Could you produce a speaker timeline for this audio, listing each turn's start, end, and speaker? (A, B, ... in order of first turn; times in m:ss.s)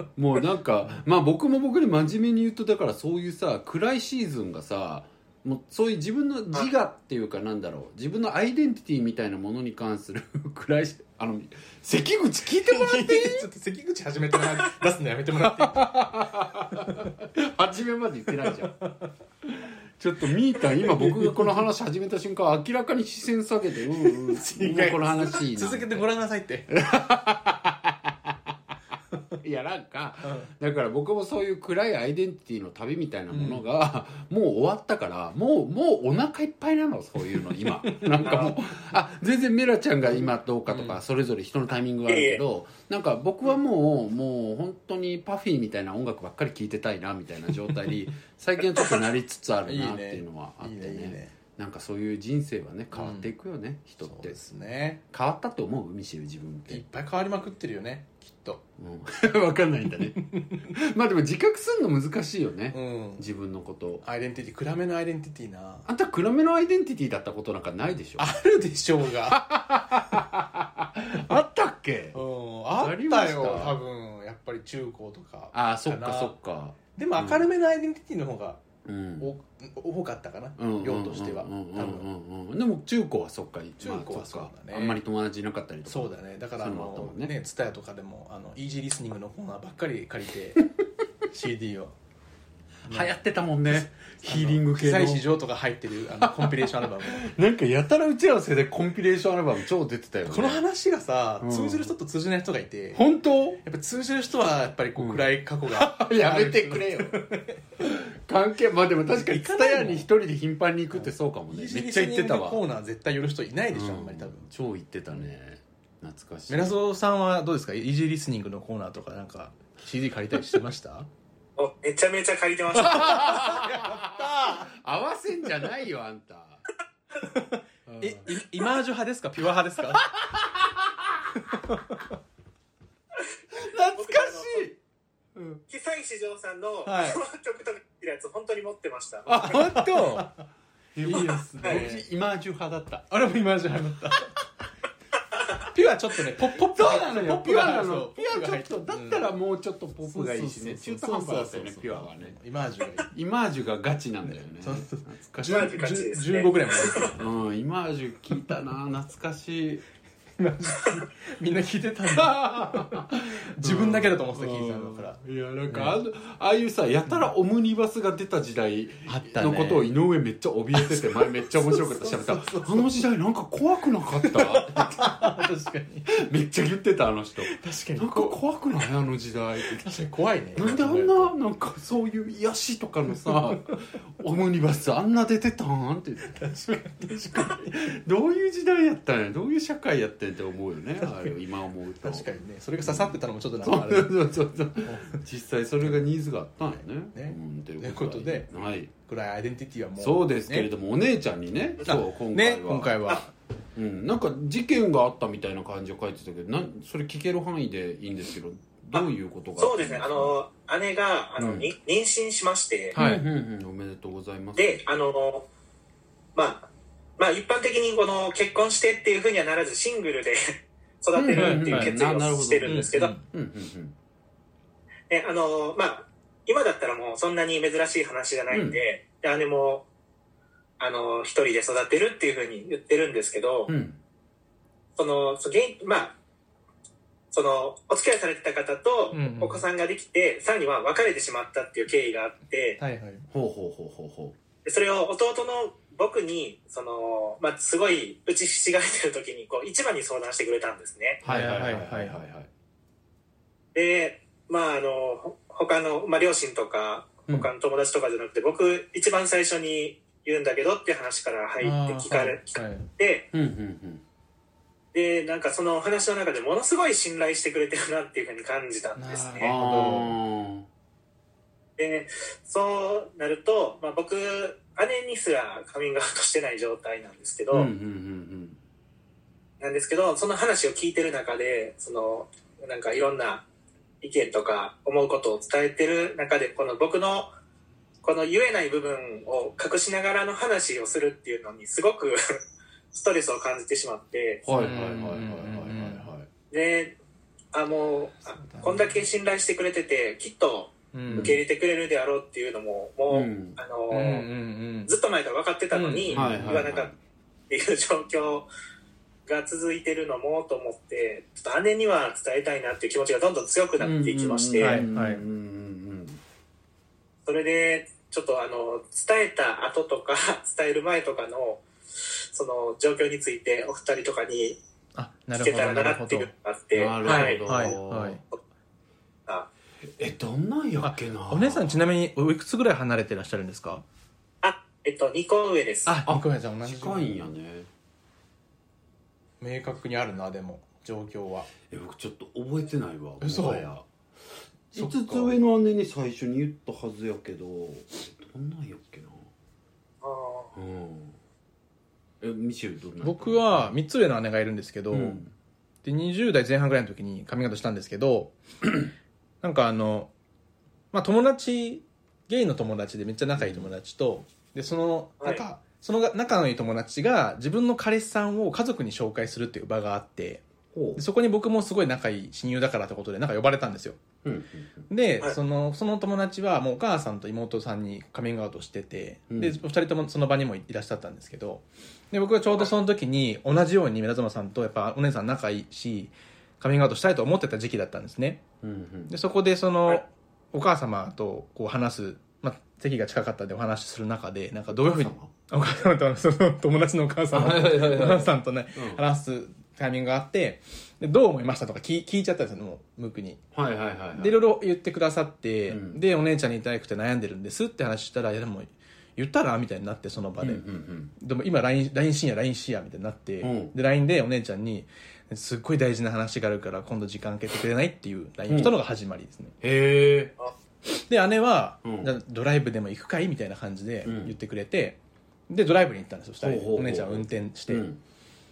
0:00.2-0:13.5 A
0:12.6-0:17.1 B
0:15.4-0:18.7 A
0:18.4-0:19.1 B
0:19.4-0:26.1 A
0:20.8-0:21.6 B
0:24.0-0:26.7 B
0:26.7-0:28.5 A
0:29.4-0:54.4 A
0:33.3-0:33.6 B
0:37.8-0:38.3 B
0:38.2-0:38.6 C
0:40.7-0:41.0 B
0:42.1-0:42.4 C
0:49.6-0:51.3 B
0:52.9-0:53.3 B
0:54.0-0:55.0 B
0:55.1-0:56.8 A
0:56.7-0:58.6 B
0:58.8-1:04.0 A
1:00.2-1:00.6 B
1:02.7-1:03.2 B
1:04.0-1:05.9 B
1:05.8-1:08.3 A
1:08.2-1:09.4 B
1:09.3-1:12.2 A
1:12.1-1:16.3 B
1:12.8-1:13.8 A
1:15.5-1:17.5 A
1:16.9-1:18.6 B
1:18.8-1:19.3 A
1:19.2-1:22.0 B
1:20.6-1:27.3 A
1:23.8-1:25.0 B
1:25.8-1:30.6 B
1:31.3-1:31.9 B
1:32.8-1:33.1 B
1:32.9-1:35.2 A
1:33.7-1:37.2 B
1:36.2-1:40.6 A
1:40.2-1:43.0 B
1:41.4-1:41.9 A
1:42.9-1:43.6 A
1:43.6-1:47.6 B
1:45.0-1:47.2 A
1:47.8-1:52.6 A
1:49.1-1:50.1 B
1:50.9-1:54.5 B
1:53.7-1:56.7 A
1:56.5-2:01.1 B
2:01.6-2:03.3 C
2:02.7-2:06.6 A
2:02.8-2:04.7 B
2:07.2-2:10.0 B
2:07.8-2:08.3 A
2:10.0-2:11.3 A
2:11.4-2:12.1 B
2:13.5-2:14.8 A
2:13.6-2:14.7 C
2:15.3-2:15.6 A
2:15.7-2:19.6 C
2:16.8-2:17.2 B
2:19.3-2:20.3 A
2:19.4-2:20.4 B
2:20.9-2:23.1 A
2:21.0-2:22.0 B
2:23.1-2:24.4 B
2:25.7-2:29.3 B
2:26.5-2:32.4 A
2:30.0-2:33.1 B
2:33.1-2:35.8 A
2:34.6-2:37.2 B
2:35.4-2:37.1 C
2:37.1-2:39.8 A
2:40.4-2:46.0 B
2:42.1-2:55.3 A
2:49.1-2:49.9 B
2:50.7-2:52.9 B
2:54.2-2:56.1 B
2:56.1-2:59.9 A
2:57.4-2:58.4 B
2:59.8-3:01.3 B
3:00.5-3:06.4 A
3:03.3-3:03.8 B
3:06.3-3:07.8 B
3:07.3-3:12.3 A
3:12.0-3:14.2 B
3:12.8-3:18.9 A
3:14.8-3:15.2 B
3:17.1-3:20.7 B
3:20.0-3:23.1 A
3:21.8-3:23.3 B
3:23.7-3:30.3 A
3:28.9-3:33.0 C
3:31.4-3:31.7 A
3:32.9-3:33.2 B
3:32.9-3:34.8 A
3:34.6-3:35.5 C
3:36.3-3:43.1 C
3:41.1-3:44.0 A
3:41.3-3:42.0 B
3:42.6-3:43.2 B
3:45.1-3:49.8 C
3:48.5-3:48.8 A
3:50.8-3:53.7 C
3:53.7-3:54.0 A
3:55.0-3:56.2 C
3:57.3-4:02.8 C
3:59.1-3:59.6 B
4:02.8-4:03.2 B
4:03.3-4:04.4 A
4:04.6-4:11.2 C
4:11.2-4:12.5 A
4:11.2-4:12.2 B
4:13.7-4:23.3 C
4:21.6-4:22.9 B
4:23.3-4:24.0 A
4:24.9-4:29.5 C
4:29.0-4:30.2 B
4:29.3-4:30.7 A
4:31.8-4:37.7 C
4:37.5-4:38.6 A
4:39.6-4:43.4 C
4:44.0-4:47.3 C
4:48.0-4:52.2 C
4:52.9-4:54.4 C
4:54.4-4:56.3 A
4:54.5-4:56.1 B
4:56.5-4:57.0 C
4:57.5-5:04.3 C
4:58.4-4:58.9 B
5:00.9-5:01.4 B
5:01.1-5:01.4 A
5:03.1-5:03.6 A
5:03.9-5:04.9 B
5:04.8-5:06.9 C
5:05.7-5:06.7 B
5:06.1-5:06.9 A
5:07.5-5:08.5 C
5:09.2-5:14.8 C
5:13.8-5:16.2 A
5:14.6-5:15.2 B
5:17.2-5:21.6 C
5:22.3-5:24.6 C
5:24.9-5:26.3 B
5:25.4-5:27.5 C
5:26.7-5:28.2 A
5:27.0-5:28.2 B
5:30.0-5:31.8 A
5:30.8-5:33.8 B
5:34.4-5:35.9 C
5:35.9-5:37.3 B
5:36.0-5:37.7 A
5:39.4-5:41.5 B
5:41.7-5:43.9 A
5:43.2-5:43.7 B
5:44.7-5:49.3 A
5:44.7-5:45.3 B
5:50.0-5:50.5 C
5:50.5-5:51.2 A
5:52.2-5:53.7 A
5:53.0-5:55.2 B
5:54.9-5:55.3 A
5:55.8-5:58.4 B
5:59.4-6:00.1 B
6:00.9-6:10.4 B
6:03.4-6:03.7 A
6:10.7-6:11.0 A
6:11.0-6:14.0 B
6:14.2-6:14.8 A
6:14.9-6:28.4 B
6:19.3-6:19.6 A
6:28.6-6:29.1 A
6:29.1-6:43.4 B
6:34.7-6:35.3 A
6:37.3-6:39.0 A
6:43.5-6:44.4 A
6:44.1-6:59.5 B
6:45.7-6:46.0 A
6:50.4-6:51.1 A
6:53.4-6:53.7 A
6:58.5-6:58.7 A
6:59.6-7:00.4 A
7:00.9-7:07.8 B
7:01.8-7:02.1 A
7:04.0-7:04.3 A
7:06.4-7:08.0 A